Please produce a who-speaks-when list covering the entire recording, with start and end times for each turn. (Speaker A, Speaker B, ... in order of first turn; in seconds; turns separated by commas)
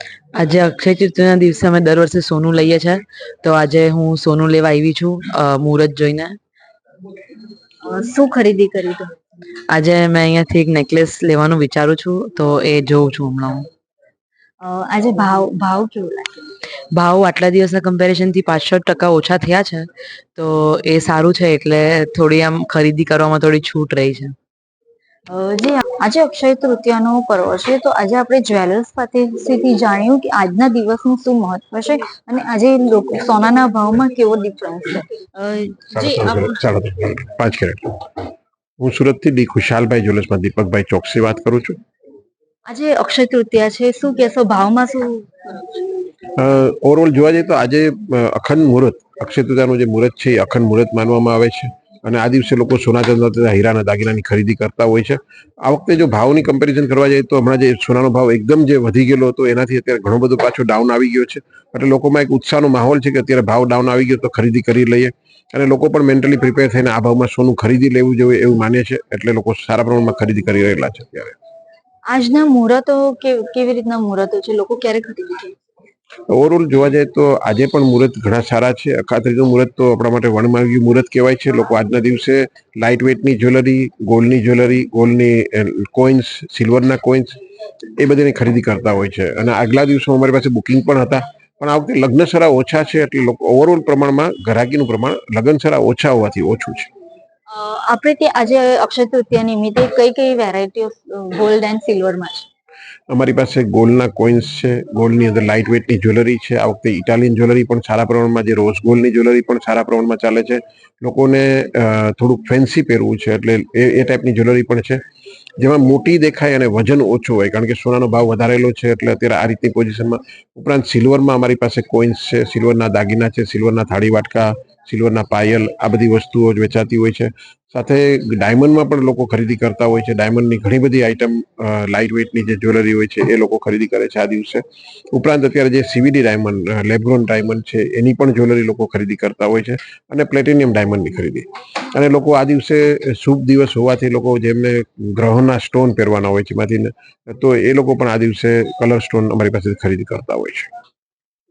Speaker A: 0.3-6.4, Speaker B: 7.8-9.1, Speaker A: 9.7-13.7, Speaker B: 14.6-16.5, Speaker A: 16.9-24.4, Speaker B: 25.3-36.6, Speaker C: 35.9-38.3, Speaker C: 38.8-41.8, Speaker B: 42.7-45.9, Speaker C: 46.4-71.3, Speaker B: 72.1-75.5, Speaker C: 76.3-87.4, Speaker C: 88.0-96.9, Speaker B: 97.5-102.5, Speaker C: 103.1-115.0, Speaker C: 115.6-150.7